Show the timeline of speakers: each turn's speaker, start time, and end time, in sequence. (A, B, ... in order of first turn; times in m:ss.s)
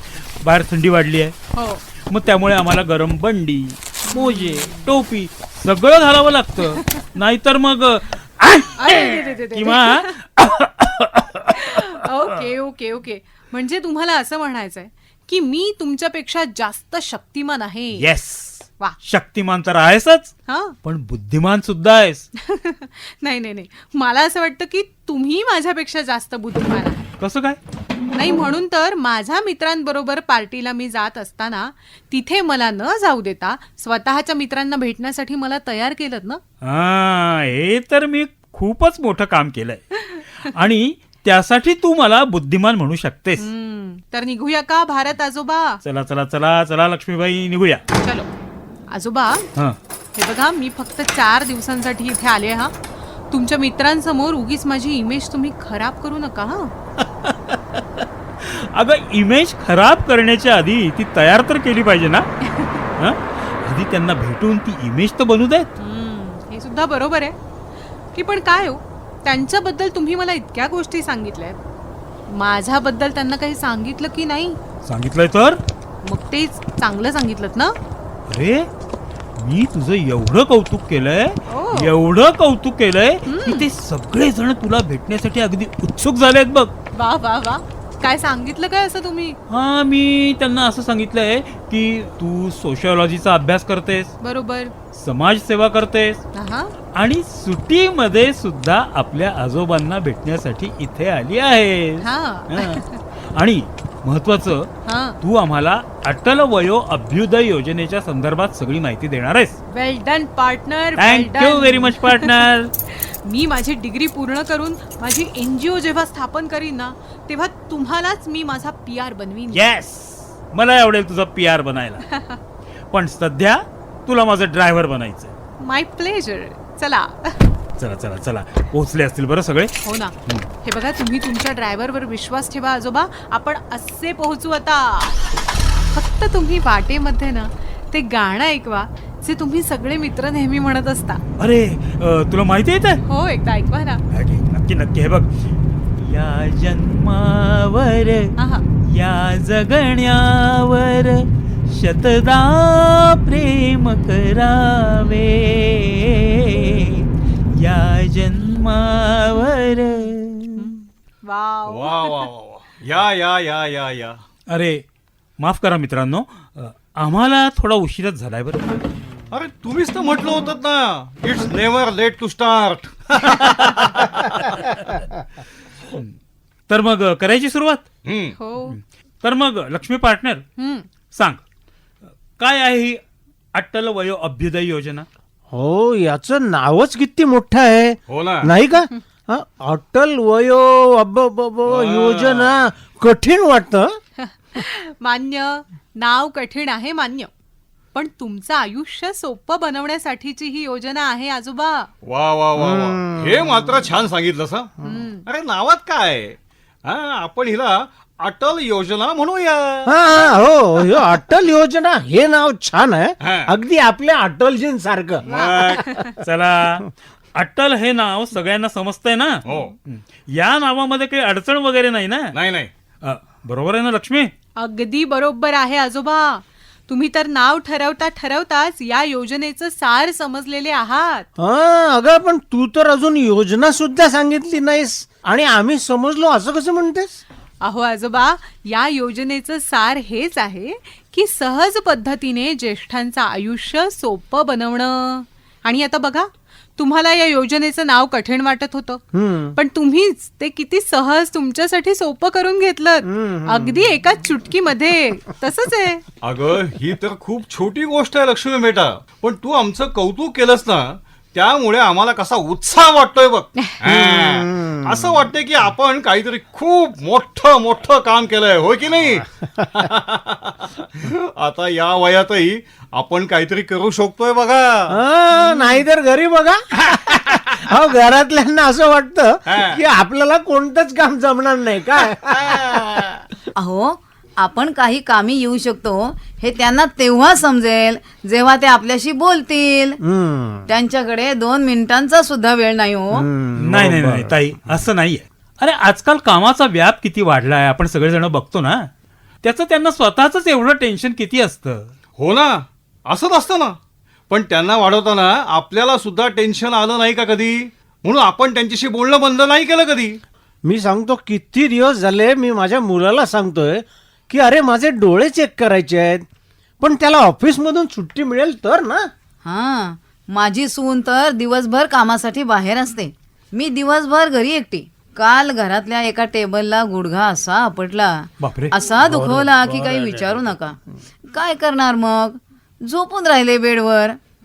0:00.4-0:01.4 A
0:01.5-0:01.8 B
0:02.1-0:12.0 A
0:04.1-0:04.8 B
0:08.8-0:10.2 B
0:11.5-0:18.1 B
0:18.0-0:22.3 A
0:20.5-0:20.8 B
0:22.4-0:27.1 B
0:27.2-0:27.6 A
0:28.1-0:36.4 B
0:36.6-0:39.8 A
0:40.4-0:43.5 A
0:43.4-0:45.8 B
0:45.8-0:47.8 A
0:48.0-0:48.3 B
0:48.9-0:49.5 B
0:50.2-0:52.7 B
0:53.3-0:56.7 B
0:57.2-0:57.6 A
0:58.4-1:02.3 A
1:03.0-1:05.7 A
1:05.8-1:07.4 B
1:08.1-1:11.6 B
1:12.3-1:14.6 B
1:14.8-1:15.6 A
1:16.0-1:17.8 B
1:18.3-1:18.7 A
1:19.4-1:26.7 A
1:21.5-1:21.9 B
1:23.3-1:23.7 B
1:26.9-1:29.4 B
1:29.5-1:34.1 A
1:34.2-1:34.7 B
1:34.9-1:36.2 A
1:36.3-1:36.7 B
1:37.0-1:42.8 A
1:42.0-1:43.0 B
1:43.3-1:44.7 A
1:44.8-1:45.2 B
1:45.2-1:49.6 A
1:49.7-1:59.6 B
1:51.0-1:52.7 A
1:59.5-2:02.0 A
2:02.1-2:02.4 B
2:02.9-2:05.3 A
2:05.6-2:07.4 B
2:07.8-2:09.7 A
2:09.8-2:15.2 B
2:15.9-2:21.2 B
2:21.4-2:23.0 A
2:23.1-2:24.0 B
2:24.1-2:25.3 A
2:26.0-2:28.3 A
2:28.4-2:28.7 B
2:28.9-2:40.7 A
2:40.6-2:42.3 B
2:41.7-2:44.2 C
2:44.5-2:44.8 A
2:45.4-2:48.8 A
2:49.3-2:54.7 C
2:56.7-2:57.9 A
2:58.0-2:58.4 C
2:58.4-2:58.8 B
2:58.7-3:00.4 A
3:00.6-3:00.9 B
3:01.1-3:01.4 A
3:02.4-3:03.0 A
3:03.5-3:05.1 A
3:05.5-3:14.0 D
3:08.1-3:08.5 C
3:11.7-3:12.5 C
3:14.2-3:17.3 B
3:17.9-3:21.9 B
3:22.0-3:24.7 C
3:22.6-3:23.8 D
3:24.8-3:25.2 B
3:25.3-3:29.9 C
3:29.9-3:35.3 D
3:33.2-3:33.5 C
3:35.3-3:35.8 C
3:35.3-3:36.0 B
3:36.2-3:42.3 A
3:39.5-3:39.7 C
3:42.3-3:42.7 C
3:43.0-3:44.3 A
3:44.6-3:51.3 B
3:51.4-3:57.2 D
3:57.6-4:09.0 B
4:09.1-4:09.6 D
4:09.5-4:16.0 B
4:13.1-4:13.9 D
4:16.2-4:34.9 C
4:23.9-4:25.1 D
4:34.9-4:42.5 D
4:35.4-4:35.8 B
4:39.5-4:39.8 C
4:42.4-4:43.1 C
4:43.6-4:50.0 E
4:50.0-4:50.7 D
4:50.7-4:53.2 E
4:53.1-4:54.4 D
4:53.6-4:58.9 A
4:59.4-5:01.9 A
5:02.2-5:03.8 C
5:04.3-5:10.2 C
5:10.6-5:16.2 D
5:16.8-5:19.1 D
5:19.4-5:30.8 E
5:28.4-5:28.8 A
5:29.0-5:30.5 D
5:31.3-5:34.2 E